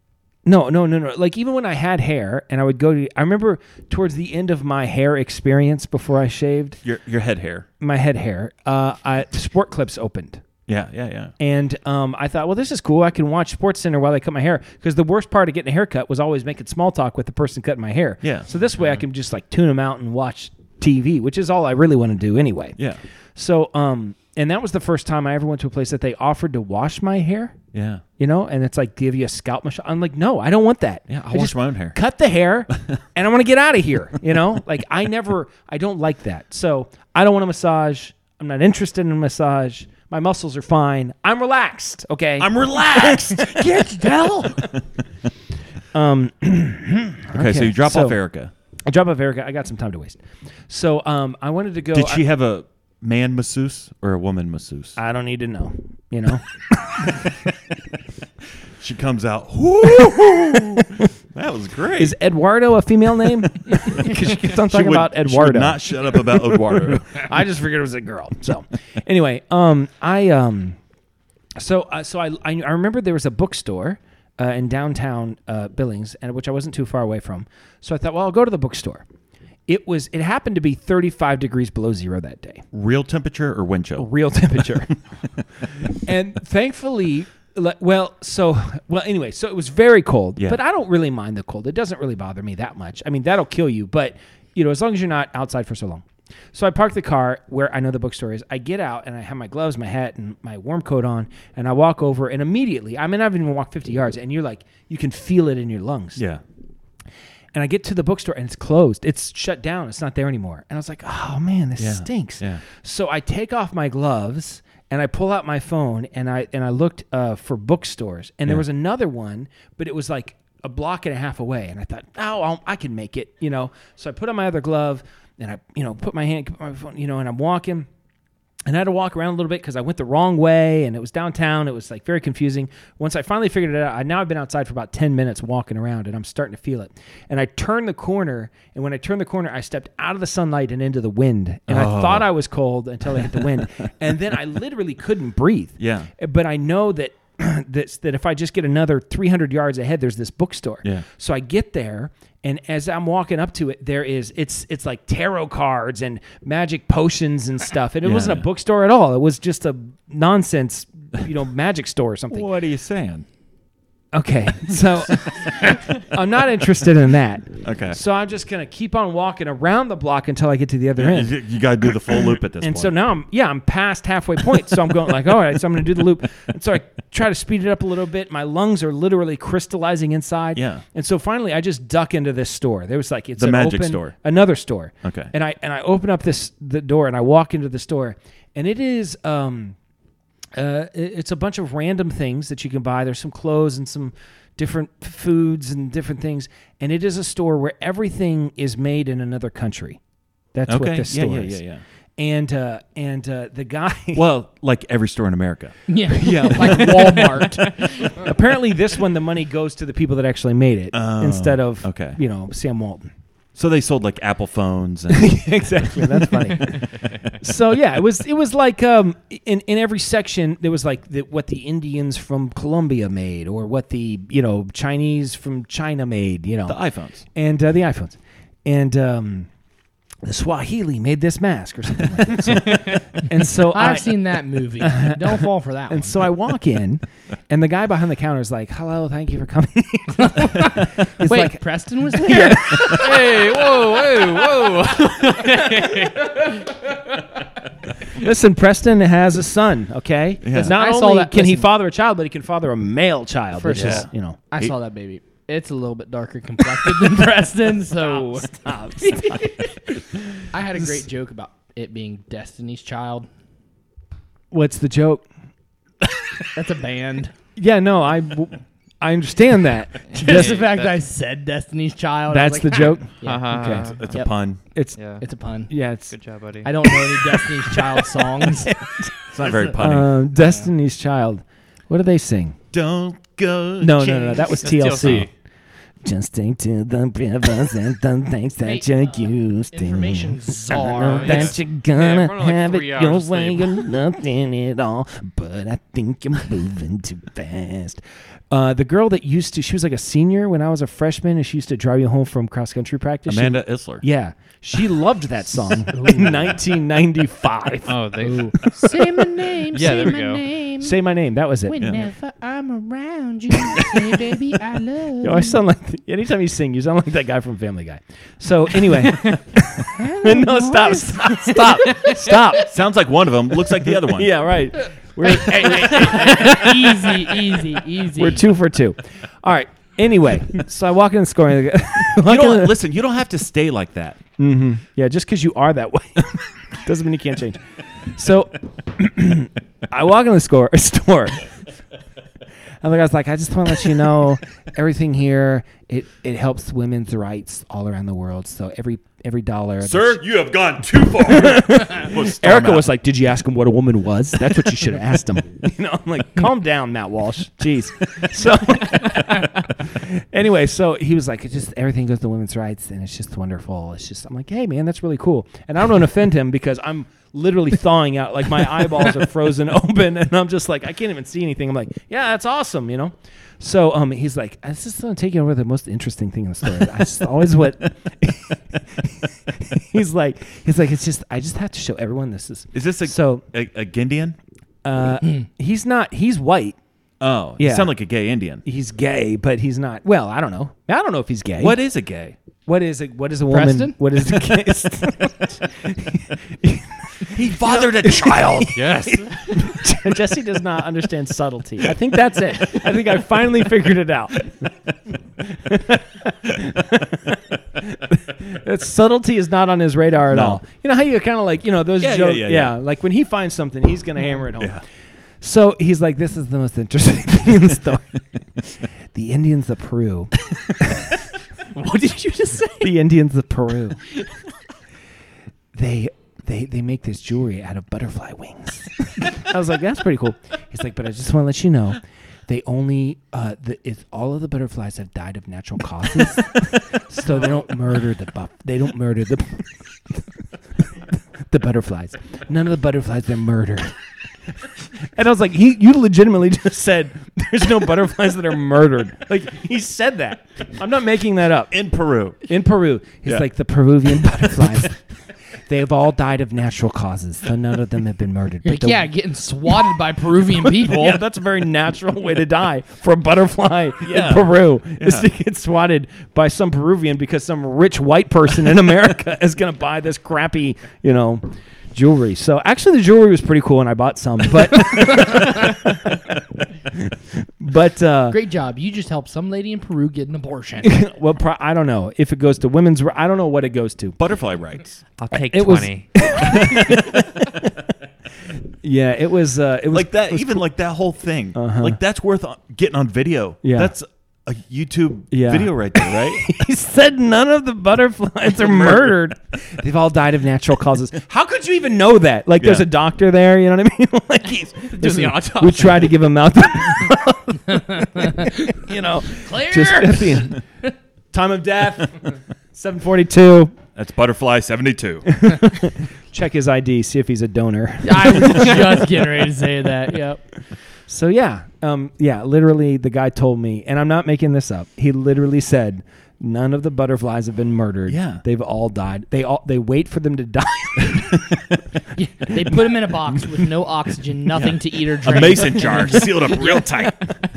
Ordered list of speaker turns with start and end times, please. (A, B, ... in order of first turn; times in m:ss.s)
0:00.4-0:06.8 A
0:06.8-0:07.7 B
0:07.8-0:10.4 A
0:10.7-0:11.3 B
0:11.4-0:22.8 A
0:23.4-0:27.6 A
0:27.7-0:28.0 B
0:28.2-0:44.7 A
0:31.1-0:32.0 B
0:42.4-0:44.8 B
0:43.7-0:44.5 C
0:45.9-0:48.2 A
0:47.3-0:48.5 B
0:48.9-0:52.2 A
0:51.9-0:55.0 B
0:55.0-0:57.3 A
0:58.8-1:02.2 B
0:59.9-1:01.0 A
1:02.0-1:10.8 A
1:04.0-1:07.3 B
1:11.6-1:19.0 A
1:19.7-1:22.7 A
1:22.7-1:24.1 B
1:24.0-1:24.9 A
1:25.9-1:46.2 A
1:46.2-1:46.4 B
1:47.5-2:07.9 A
1:51.8-1:52.6 B
2:08.7-2:42.5 A
2:21.7-2:22.3 B
2:25.8-2:26.1 B
2:38.0-2:38.4 B
2:42.3-2:43.3 B
2:44.1-2:51.4 A
2:47.6-2:48.0 B
2:51.0-2:53.0 B
2:52.1-3:09.8 A
3:00.6-3:00.8 B
3:03.4-3:04.2 B
3:05.0-3:05.3 B
3:10.5-3:20.0 A
3:20.5-3:21.6 A
3:20.7-3:21.8 B
3:22.2-3:24.3 A
3:24.2-3:27.4 B
3:25.9-3:27.9 C
3:26.2-3:33.1 A
3:30.9-3:32.2 B
3:33.6-3:36.2 B
3:35.1-3:46.8 A
3:46.7-3:47.2 B
3:47.3-3:49.5 A
3:50.2-3:54.2 A
3:53.7-3:56.2 C
3:54.8-4:03.6 A
4:00.2-4:03.0 C
4:02.8-4:06.9 D
4:05.4-4:06.1 A
4:08.1-4:14.4 A
4:10.4-4:10.8 B
4:10.5-4:11.7 C
4:13.6-4:19.7 C
4:13.8-4:14.0 B
4:17.9-4:19.7 A
4:20.5-4:23.3 C
4:24.5-4:25.3 A
4:26.5-4:27.3 C
4:27.6-4:30.6 A
4:30.1-4:31.0 D
4:30.1-4:34.3 C
4:32.3-4:33.9 A
4:33.2-4:34.2 D
4:33.8-4:34.6 B
4:35.0-4:35.2 D
4:35.2-4:35.7 C
4:35.7-4:36.1 A
4:36.1-4:36.7 D
4:36.6-4:38.7 C
4:38.0-4:42.6 A
4:39.3-4:40.2 B
4:42.7-4:45.3 B
4:43.8-4:45.3 A
4:44.6-4:45.3 D
4:46.0-5:10.1 A
4:48.6-4:51.6 C
4:51.0-4:53.9 D
5:03.3-5:04.0 B
5:05.9-5:06.4 C
5:07.9-5:08.7 D
5:08.2-5:11.0 C
5:09.7-5:10.4 D
5:10.8-5:12.0 A
5:11.7-5:15.6 C
5:11.8-5:12.1 B
5:13.7-5:14.2 A
5:15.2-5:22.8 A
5:20.0-5:21.0 C
5:22.6-5:24.4 B
5:23.7-5:27.5 A
5:25.2-5:28.5 C
5:28.1-5:32.8 A
5:32.2-5:34.2 B
5:34.4-5:41.5 A
5:42.8-5:50.2 A
5:49.8-5:52.9 B
5:51.2-6:23.4 A
6:22.7-6:24.4 B
6:24.8-6:26.8 A
6:27.2-6:28.6 B
6:27.6-6:28.0 A
6:28.6-6:31.8 A
6:31.6-6:32.4 B
6:32.6-6:44.7 A
6:33.5-6:34.0 C
6:37.3-6:38.8 B
6:38.7-6:39.6 D
6:45.4-6:54.8 A
6:50.3-6:50.6 B
6:52.0-6:52.8 B
6:54.6-6:54.8 B
6:55.4-7:01.1 A
7:01.8-7:04.0 A
7:05.7-7:24.0 A
7:25.0-7:31.7 A
7:31.7-7:32.5 B
7:32.4-7:35.0 A
7:35.6-7:39.1 A
7:38.6-7:41.2 C
7:40.5-7:58.4 A
7:44.0-7:45.3 B
7:58.3-8:01.0 C
8:00.8-8:04.2 A
8:04.2-8:05.0 B
8:05.2-8:06.1 D
8:05.3-8:07.7 A
8:06.7-8:07.0 B
8:08.8-8:10.7 A
8:09.9-8:16.5 B
8:11.5-8:12.0 A
8:13.6-8:13.9 A
8:15.3-8:30.6 A
8:18.6-8:19.2 B
8:22.6-8:22.9 B
8:25.0-8:26.1 D
8:29.3-8:30.4 C
8:31.3-8:33.8 A
8:34.0-8:35.4 B
8:35.3-8:39.3 A
8:38.0-8:40.4 C
8:41.1-8:51.6 A
8:48.1-8:48.4 B
8:52.2-8:57.1 C
8:52.6-8:53.4 A
8:54.5-8:57.3 B